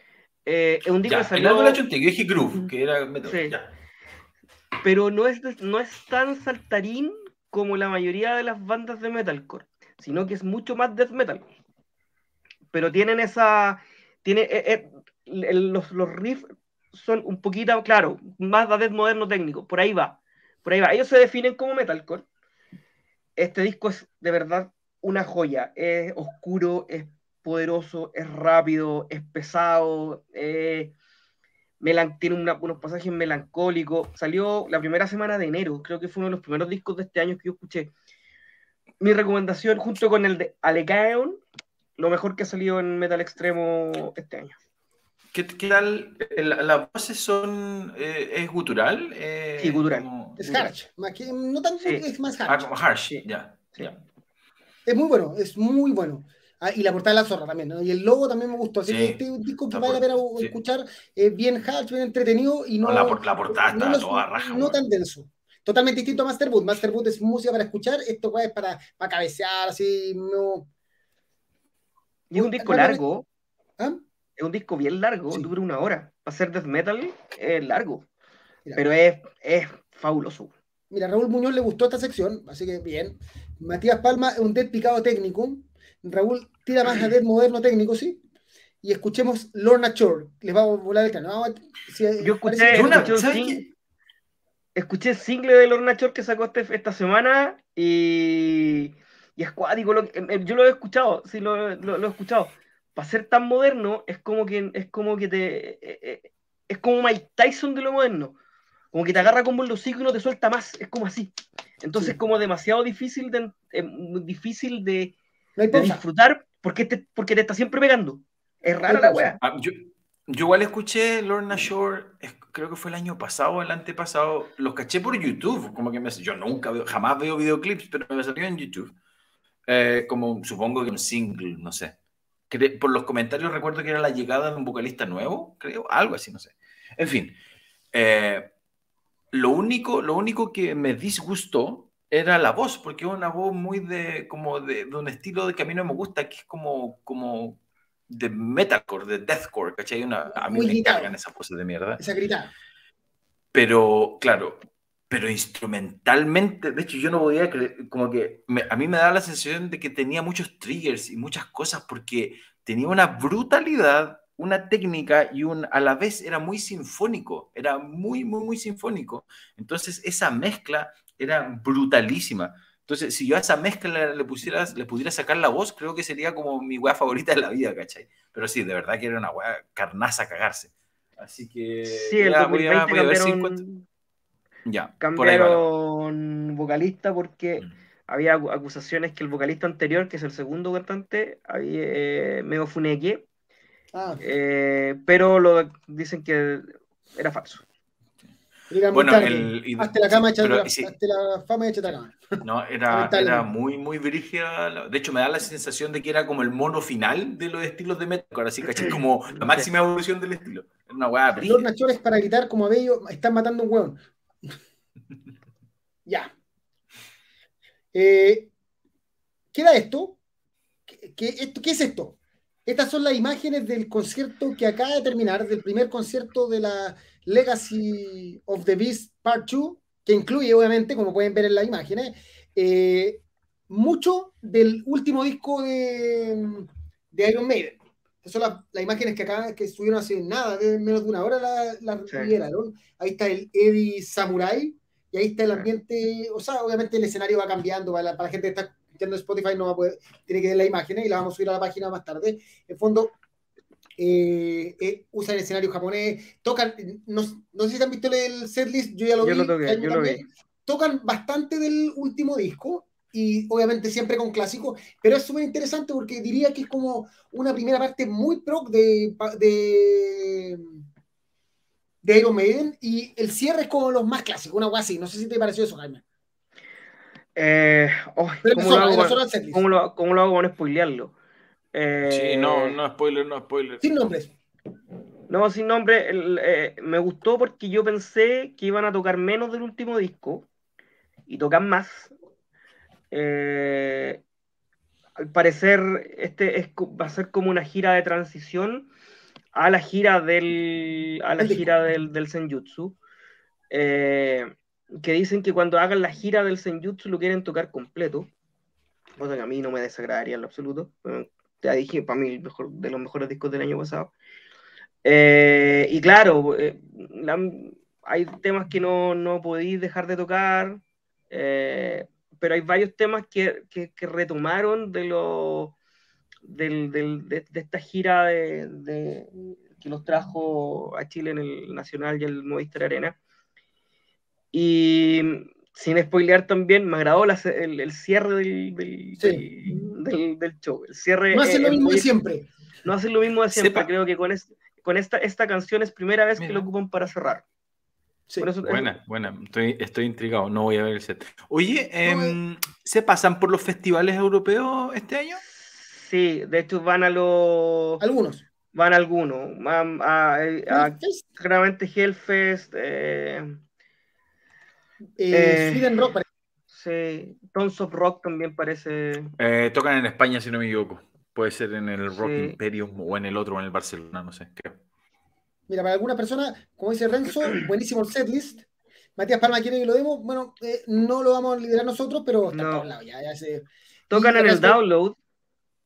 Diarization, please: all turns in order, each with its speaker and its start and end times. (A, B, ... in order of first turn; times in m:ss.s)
0:00.4-0:01.8 A
0:01.0-0:03.7 B
0:03.2-0:03.5 A
0:04.8-0:11.5 A
0:12.7-0:22.2 A
0:23.4-0:30.9 A
0:31.8-0:37.9 A
0:39.0-0:41.4 A
0:42.0-0:44.6 A
0:45.3-0:50.4 B
0:49.6-0:50.6 A
0:50.4-0:52.7 C
0:52.5-0:54.0 B
0:53.1-0:53.9 A
0:54.8-1:10.7 C
0:58.9-0:59.2 B
0:59.7-1:00.5 B
1:02.8-1:04.8 B
1:12.3-1:13.2 A
1:12.3-1:13.0 C
1:14.4-1:18.0 A
1:18.8-1:20.5 A
1:20.9-1:28.2 C
1:28.8-1:33.1 C
1:32.2-1:33.6 A
1:32.7-1:33.7 B
1:34.8-1:48.4 A
1:48.9-1:55.1 A
1:55.6-1:56.0 C
1:55.7-1:59.4 A
1:58.9-1:59.3 C
1:59.4-2:08.9 B
2:09.7-2:12.0 B
2:12.5-2:17.4 B
2:17.9-2:18.5 B
2:19.3-2:32.0 B
2:30.3-2:31.1 C
2:32.0-2:32.5 C
2:33.5-3:03.6 B
3:01.9-3:03.8 A
3:04.6-3:05.7 B
3:05.0-3:13.2 A
3:13.9-3:14.2 C
3:14.2-3:17.6 A
3:18.7-3:22.2 C
3:18.9-3:20.9 B
3:22.4-3:31.7 B
3:22.9-3:23.5 C
3:31.4-3:34.0 C
3:36.0-3:36.3 C
3:37.9-3:38.5 C
3:39.5-3:40.2 C
3:40.9-4:13.1 C
4:14.0-4:30.7 C
4:19.2-4:20.2 A
4:32.0-4:36.0 C
4:37.4-4:41.1 A
4:38.4-4:39.6 C
4:41.7-4:42.8 A
4:42.1-4:43.8 B
4:43.8-4:44.3 C
4:45.3-4:50.5 A
4:51.3-4:52.1 A
4:53.1-4:54.2 A
4:55.2-4:58.9 A
4:59.5-5:03.0 A
5:01.4-5:01.7 C
5:03.7-5:08.3 A
5:09.2-5:14.1 A
5:15.0-5:25.8 A
5:26.4-5:33.2 A
5:34.5-5:42.1 A
5:39.2-5:39.4 C
5:41.3-5:42.5 C
5:42.8-5:47.4 A
5:43.5-5:43.9 B
5:46.4-5:46.6 B
5:48.4-5:48.9 A
5:48.6-5:55.4 B
5:52.0-5:52.4 C
5:55.4-5:58.0 A
5:58.0-5:58.4 C
5:58.7-6:03.6 A
6:00.7-6:01.2 C
6:05.2-6:06.2 C
6:05.3-6:06.0 A
6:06.7-6:09.3 A
6:09.4-6:14.8 B
6:12.1-6:12.6 A
6:15.7-6:18.6 C
6:19.2-6:24.8 C
6:22.5-6:22.9 A
6:24.1-6:25.2 A